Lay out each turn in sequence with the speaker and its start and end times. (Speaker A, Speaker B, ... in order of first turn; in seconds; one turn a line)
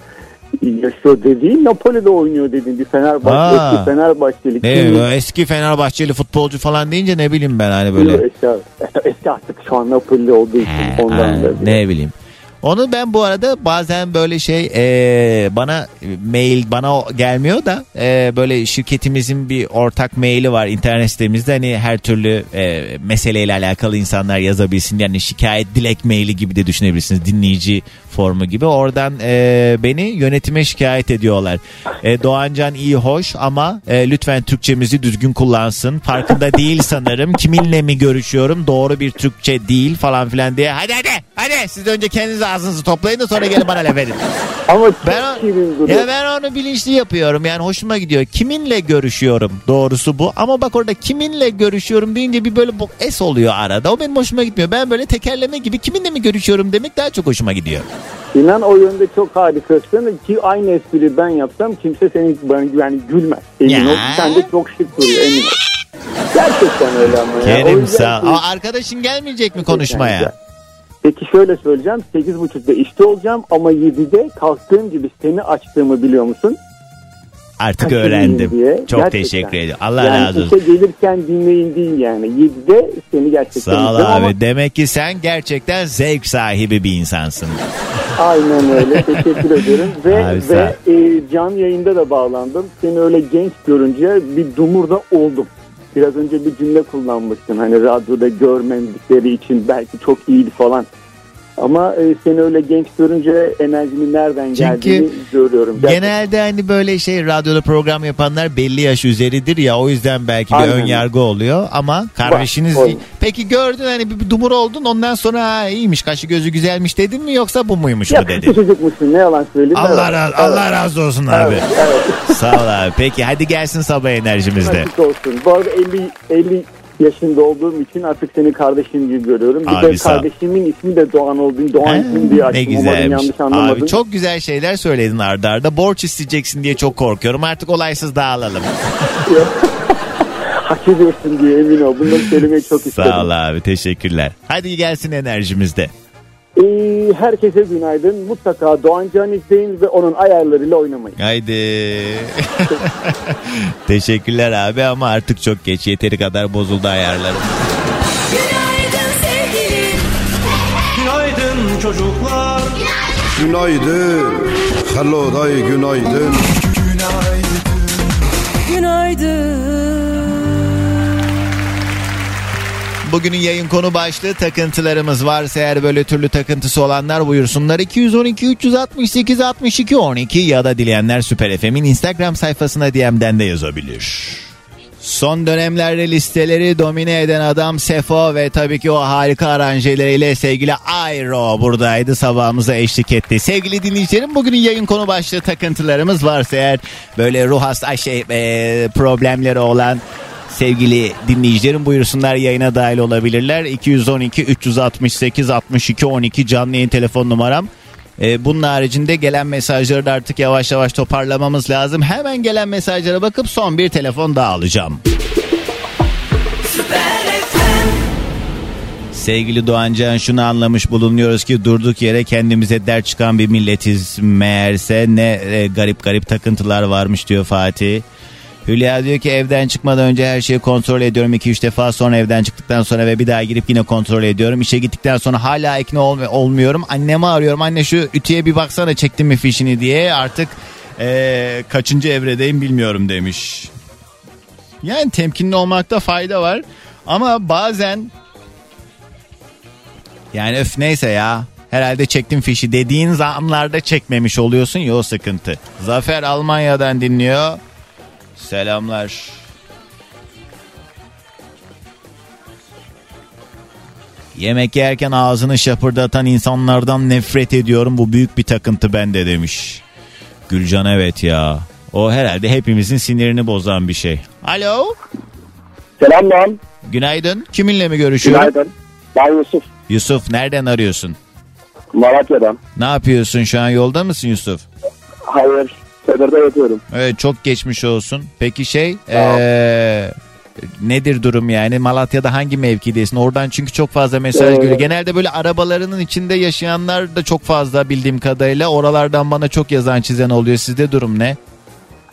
Speaker A: 0.6-5.1
Speaker B: 3.2-3.9
Speaker B: 4.6-8.2
Speaker A: 7.9-11.8
Speaker B: 10.6-44.2
Speaker A: 44.7-46.0
Speaker B: 45.0-57.9
Speaker A: 58.3-65.6
Speaker B: 63.6-64.5
Speaker A: 66.3-68.4
Speaker B: 67.4-70.3
Speaker A: 69.5-70.3
Speaker A: 71.0-76.6
Speaker B: 77.6-80.6
Speaker A: 77.8-84.3
Speaker B: 83.5-87.6
Speaker A: 88.2-100.9
Speaker B: 88.8-89.2
Speaker B: 90.1-90.7
Speaker A: 101.6-106.1
Speaker B: 104.5-105.1
Speaker B: 105.8-118.5
Speaker A: 110.5-111.0
Speaker A: 112.2-113.0
Speaker A: 118.1-120.7
Speaker B: 119.7-121.7
Speaker A: 121.3-122.6
Speaker B: 122.3-124.9
Speaker A: 124.6-134.0
Speaker B: 129.7-130.2
Speaker B: 131.8-138.7
Speaker A: 139.3-140.0
Speaker A: 140.6-143.3
Speaker B: 142.9-145.9
Speaker A: 146.6-151.2
Speaker B: 151.2-157.5
Speaker C: 160.9-162.9
Speaker D: 163.3-166.6
Speaker C: 166.5-168.1
Speaker C: 168.6-170.4
Speaker B: 173.1-184.5
Speaker B: 185.0-215.0
Speaker B: 219.1-228.0
Speaker B: 228.7-243.7
Speaker B: 244.8-248.1
Speaker B: 250.3-257.6
Speaker B: 258.4-259.4
Speaker B: 264.3-269.8
Speaker B: 270.5-274.9
Speaker E: 276.0-276.6
Speaker B: 276.8-278.5
Speaker E: 278.2-279.6
Speaker B: 279.9-281.1
Speaker E: 281.9-282.6
Speaker B: 282.8-284.6
Speaker E: 285.3-286.8
Speaker B: 286.9-290.1
Speaker E: 289.1-289.4
Speaker B: 290.8-301.4
Speaker E: 294.3-294.8